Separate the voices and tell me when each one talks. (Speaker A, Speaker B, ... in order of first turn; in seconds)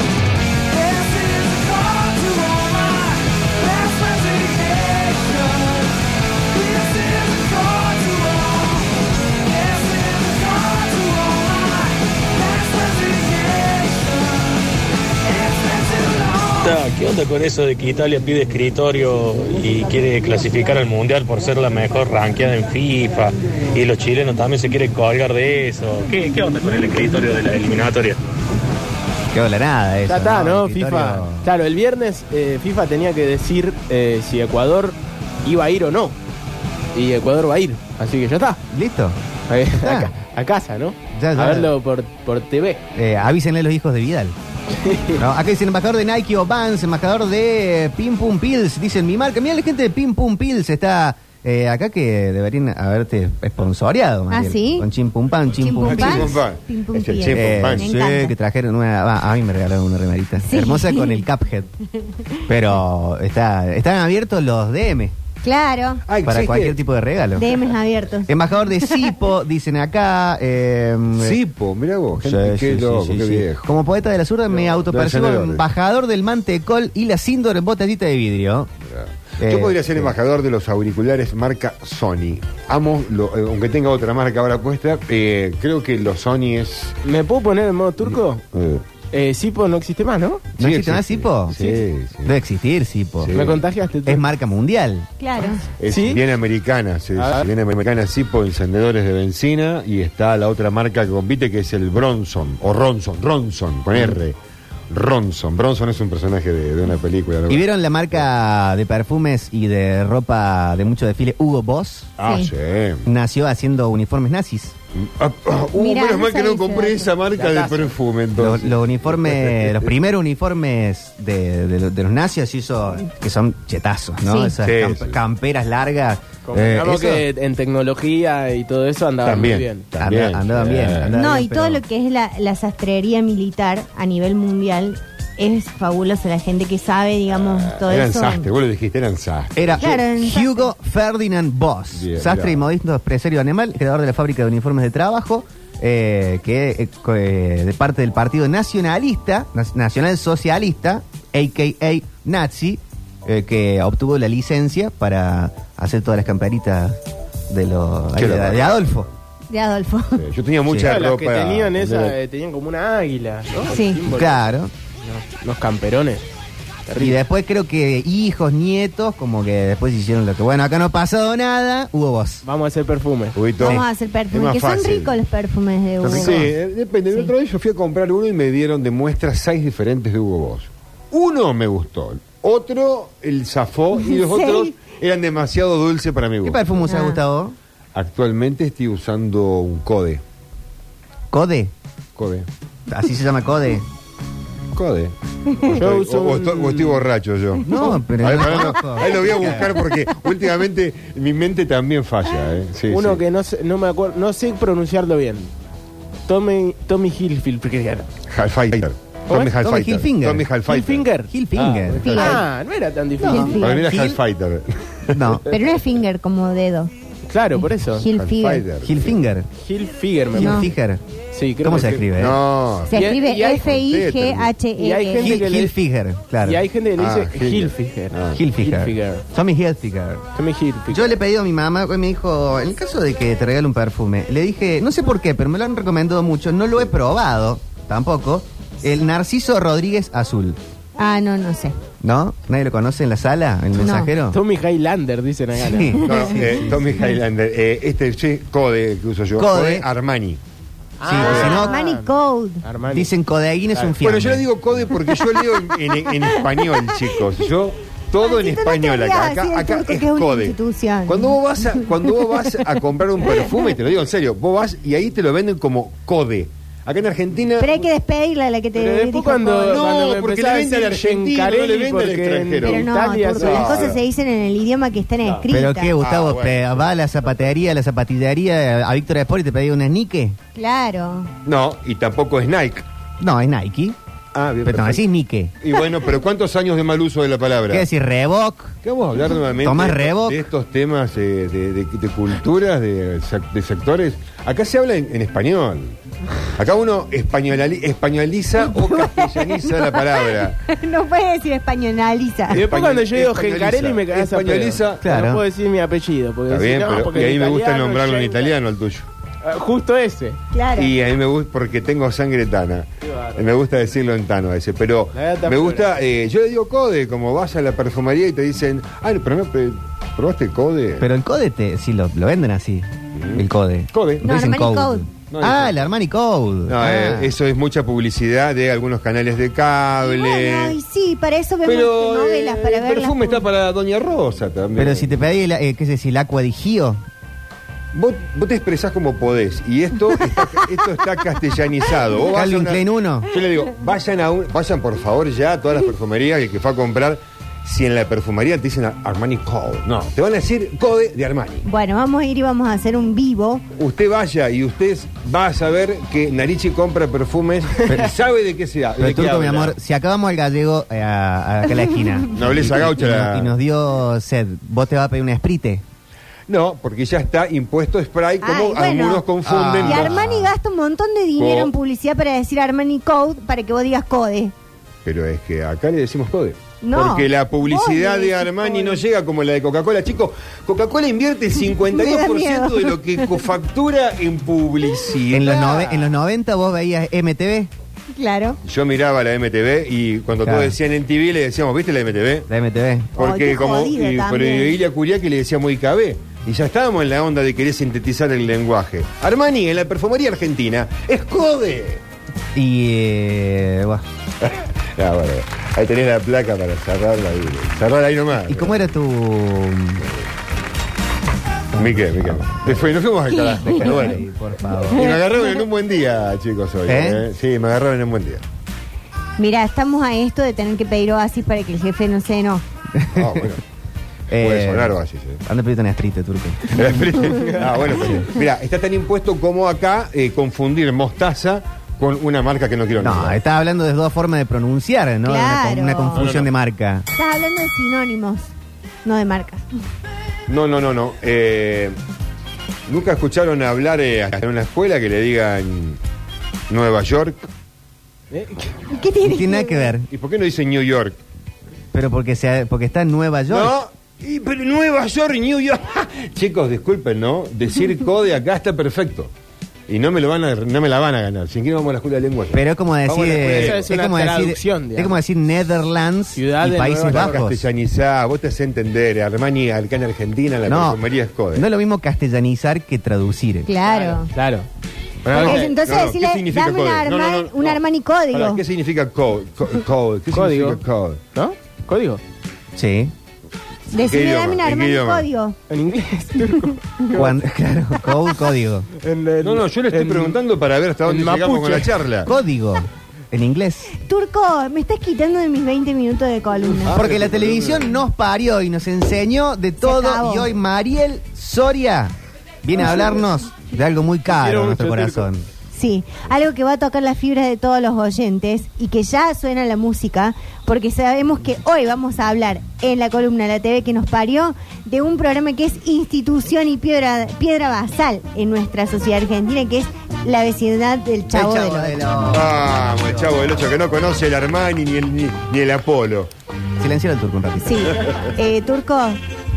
Speaker A: 0.7-5.9, 6.5-8.8, 9.5-14.2, 15.4-16.5, 30.1-36.1, 36.9-38.6, 39.5-42.8, 44.7-45.2, 87.0-88.4, 89.1-90.5, 93.3-94.2, 95.9-96.2, 97.2-97.5, 117.3-117.9, 126.5-129.8, 160.8-164.4, 165.1-166.2, 166.9-167.2, 172.4-173.4, 176.1-176.4, 195.6-197.1, 202.9-205.5, 206.3-208.1, 210.7-213.8, 217.3-218.1, 219.6-220.7, 221.3-222.1, 222.9-223.7, 224.8-225.8, 226.4-229.2, 230.3-231.2, 244.3-246.0, 251.0-252.1, 252.6-253.1, 268.8-274.0, 302.5-308.5, 309.4-310.4, 315.1-315.9, 448.3-448.7, 463.4-465.1, 466.4-467.4, 473.9-474.7, 475.2-475.7, 480.3-480.8, 481.3-482.2, 485.7-487.3, 489.0-490.4, 491.1-492.0, 496.9-497.5, 504.3-505.3
Speaker B: 16.6-28.2
Speaker C: 29.3-31.5, 38.7-39.2, 39.7-40.1, 41.1-41.7, 42.9-44.3, 45.1-56.4, 57.3-61.7, 62.5-65.1, 66.2-67.5, 68.3-71.4, 72.1-78.7, 79.4-80.1, 90.6-91.7, 92.2-93.3, 94.0-95.1, 107.5-112.1, 113.0-114.8, 118.3-127.2, 130.0-131.8, 139.6-159.1, 160.7-161.0, 164.1-164.7, 166.9-172.4, 176.0-176.4, 186.4-187.6, 191.3-191.7, 192.9-193.8, 197.6-199.8, 209.6-210.5, 211.3-212.4, 213.2-214.2, 215.1-215.5, 218.8-219.5, 220.3-221.0, 221.6-222.4, 225.2-226.6, 228.3-230.2, 230.9-240.6, 242.0-244.4, 245.5-247.1, 249.3-249.9, 251.0-251.8, 252.9-254.5, 275.5-280.4, 283.2-283.9, 284.6-285.5, 287.7-288.7, 289.6-290.4, 305.0-305.4, 321.0-327.3, 334.8-337.0, 342.3-343.3, 359.0-365.8, 369.4-370.2, 385.3-387.7, 390.4-390.8, 392.5-393.1, 402.5-404.0, 408.4-410.1, 411.8-415.1, 416.9-417.2, 422.9-423.6, 424.3-427.4, 427.9-428.2, 433.0-437.1, 449.2-450.1, 451.9-453.7, 462.5-467.6, 470.6-471.0, 471.5-473.7, 475.2-475.6, 482.8-483.1, 487.1-488.9, 492.2-493.9, 496.9-502.1, 502.6-505.4, 521.3-523.4, 526.8-528.0
Speaker D: 54.3-54.9, 55.5-58.3, 60.4-61.2, 65.4-66.0, 67.3-69.1, 95.2-95.7, 112.2-112.5, 115.8-117.1, 124.2-124.5, 131.1-138.5, 139.8-140.7, 159.5-160.2, 163.7-164.0, 173.6-176.5, 184.0-184.7, 186.9-187.2, 211.9-212.4, 213.2-213.8, 215.4-216.9, 217.8-218.6, 220.4-220.7, 222.9-225.4, 241.0-241.8, 243.8-244.1, 245.9-246.2, 251.2-252.7, 258.2-261.9, 267.6-269.8, 272.6-275.9, 280.5-281.3, 298.6-302.6, 310.5-310.9, 324.2-325.1, 330.0-333.4, 351.6-353.6, 368.4-369.2, 369.8-374.5, 376.8-379.0, 381.9-383.2, 388.1-388.6, 393.2-394.7, 413.4-413.8, 414.9-415.2, 419.4-422.6, 435.2-436.3, 437.1-438.5, 439.0-439.6, 448.9-449.9, 473.6-474.3, 475.3-478.6, 483.9-485.6, 486.6-487.1, 494.0-497.0, 499.8-500.5, 505.7-522.0, 527.6-529.2
Speaker E: 55.8-58.0, 66.1-66.8, 71.2-73.7, 74.5-75.6, 78.9-86.9, 88.0-88.8, 90.6-92.4, 93.2-93.6, 95.8-104.3, 104.9-107.6, 112.2-113.0, 114.9-119.9, 124.6-125.2, 129.2-131.2, 137.4-140.0, 141.9-142.6, 158.1-159.0, 160.2-162.2, 173.3-175.2, 176.0-186.7, 187.9-190.2, 192.2-192.5, 194.7-203.2, 208.3-211.1, 213.6-215.4, 218.2-219.2, 222.1-224.5, 227.0-228.4, 246.0-250.4, 251.2-251.6, 254.0-267.9, 269.7-272.9, 273.4-274.0, 276.0-276.9, 281.4-282.8, 284.3-285.0, 285.6-287.9, 288.8-295.9, 296.5-300.6, 302.5-305.0, 306.5-309.1, 310.7-321.1, 323.1-324.3, 325.3-325.8, 326.7-330.8, 331.6-335.2, 337.9-351.6, 353.8-359.7, 362.3-363.5, 366.5-370.5, 371.4-371.7, 375.0-385.9, 388.6-392.5, 393.1-402.0, 404.4-408.9, 411.8-418.4, 423.1-423.6, 424.4-425.4, 426.7-433.4, 436.1-436.5, 440.5-442.0, 442.9-446.0, 446.7-447.4, 450.1-451.2, 453.5-459.3, 459.9-463.9, 467.1-471.7, 475.3-477.8, 478.3-481.2, 484.0-485.3, 489.4-492.3, 496.9-497.9, 522.3-526.3